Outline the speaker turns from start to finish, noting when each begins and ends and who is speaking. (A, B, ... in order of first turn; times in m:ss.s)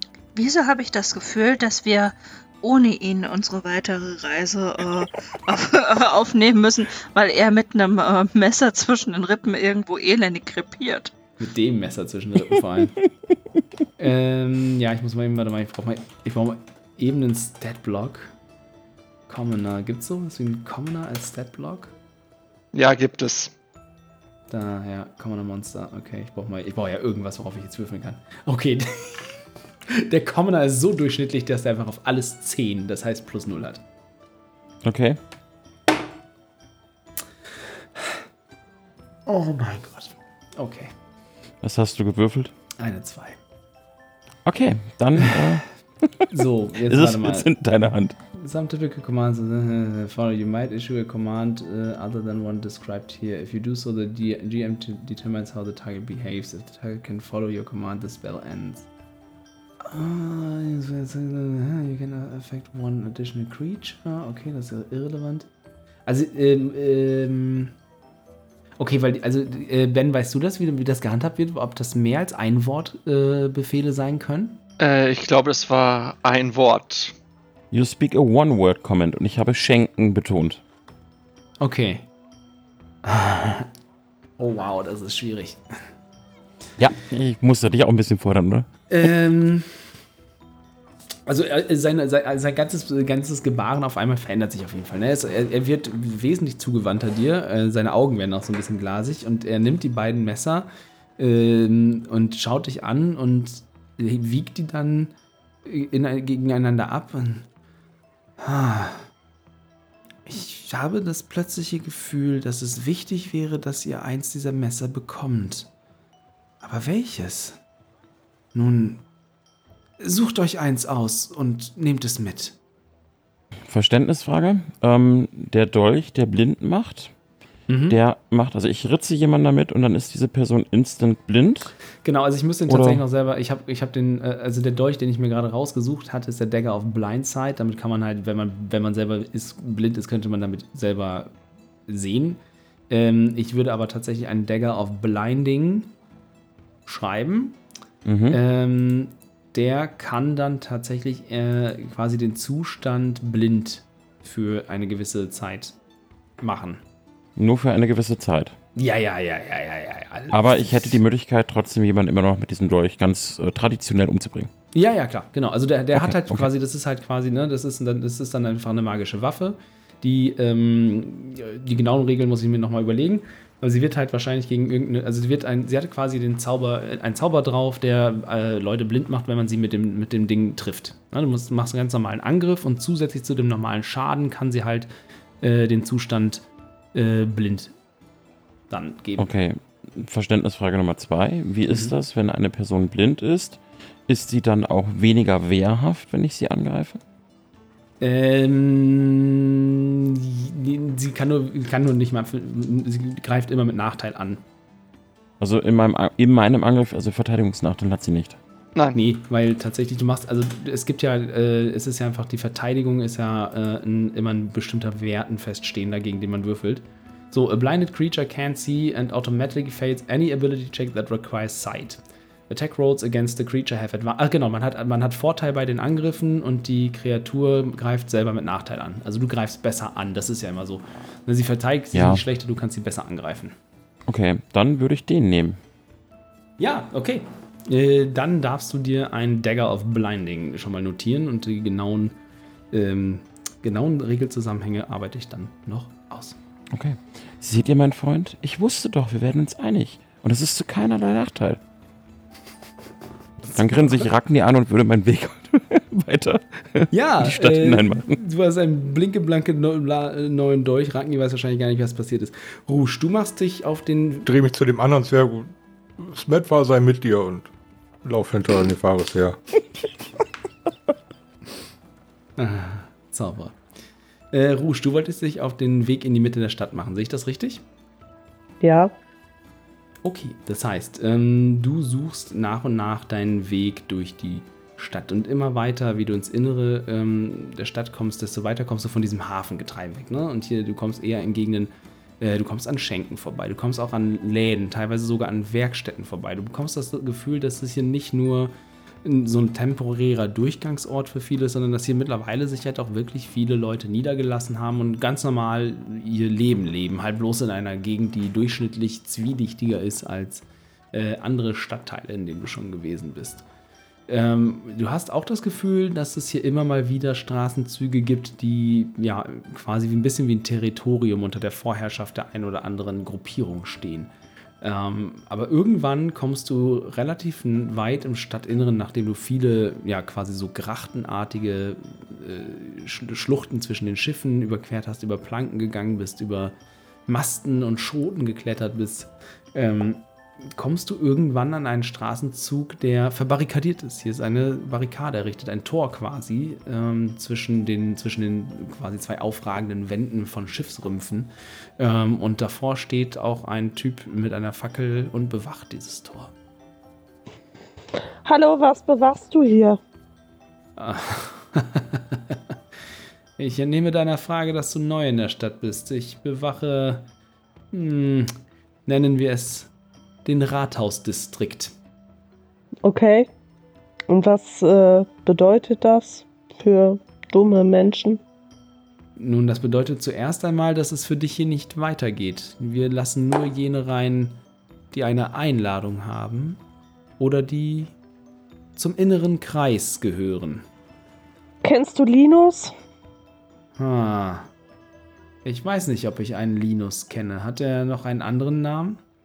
0:00.3-0:11.1 A
0:11.4-0:13.0 B
0:14.0-0:18.3 B
0:19.3-0:21.9 B
0:22.7-0:23.5 C
0:24.5-0:33.8 B
0:34.8-0:35.2 D
0:39.2-0:40.9 B
0:41.6-0:42.5 D
0:42.8-0:43.4 B
0:44.4-0:48.2 D
0:45.2-0:45.6 B
0:46.3-0:47.5 B
0:48.4-0:58.9 B
0:59.8-1:05.5 B
1:06.0-1:07.7 B
1:08.8-1:14.6 B
1:14.8-1:17.1 C
1:17.7-1:20.6 D
1:21.6-1:22.1 B
1:23.0-1:23.7 B
1:24.4-1:25.8 B
1:26.8-1:28.7 D
1:28.9-1:29.9 B
1:31.2-1:45.1 B
1:45.6-1:47.5 B
1:48.4-1:49.1 B
1:50.2-1:55.7 B
1:56.6-1:57.6 B
1:58.5-1:59.0 B
2:00.0-2:02.6 B
2:03.7-2:07.1 D
2:07.7-2:08.0 B
2:07.9-2:11.7 D
2:12.0-2:21.4 B
2:12.7-2:13.0 D
2:21.9-2:25.9 B
2:26.8-2:27.6 B
2:28.0-2:28.4 D
2:28.3-2:35.8 B
2:36.4-2:36.8 B
2:37.4-2:38.5 D
2:38.8-2:41.0 B
2:40.3-2:44.5 D
2:44.7-3:07.7 B
2:45.9-2:46.5 D
3:08.7-3:09.3 B
3:09.2-3:17.0 D
3:11.7-3:11.9 B
3:18.0-3:24.4 B
3:25.4-3:28.4 D
3:28.9-3:53.6 B
3:51.9-3:52.2 D
3:54.1-3:55.6 D
3:56.6-4:02.2 B
4:02.7-4:06.4 B
4:06.7-4:11.6 D
4:13.4-4:14.1 B
4:13.5-4:18.2 D
4:16.9-4:24.3 B
4:24.2-4:27.5 E
4:28.0-4:29.4 E
4:32.4-4:33.6 B
4:34.3-4:37.6 B
4:38.6-4:38.9 F
4:40.0-4:58.5 B
4:59.0-5:13.4 B
5:14.1-5:36.5 B
5:37.1-5:56.3 B
5:58.2-5:59.8 F
6:00.8-6:02.6 B
6:03.4-6:07.1 B
6:07.7-6:08.3 B
6:08.8-6:09.7 B
6:10.2-6:11.8 B
6:12.8-6:13.3 F
6:14.1-6:18.2 F
6:19.2-6:24.4 B
6:24.9-6:26.6 B
6:27.2-6:27.9 B
6:28.8-6:30.6 B
6:31.6-6:32.7 F
6:33.8-6:34.5 B
6:35.4-6:39.0 B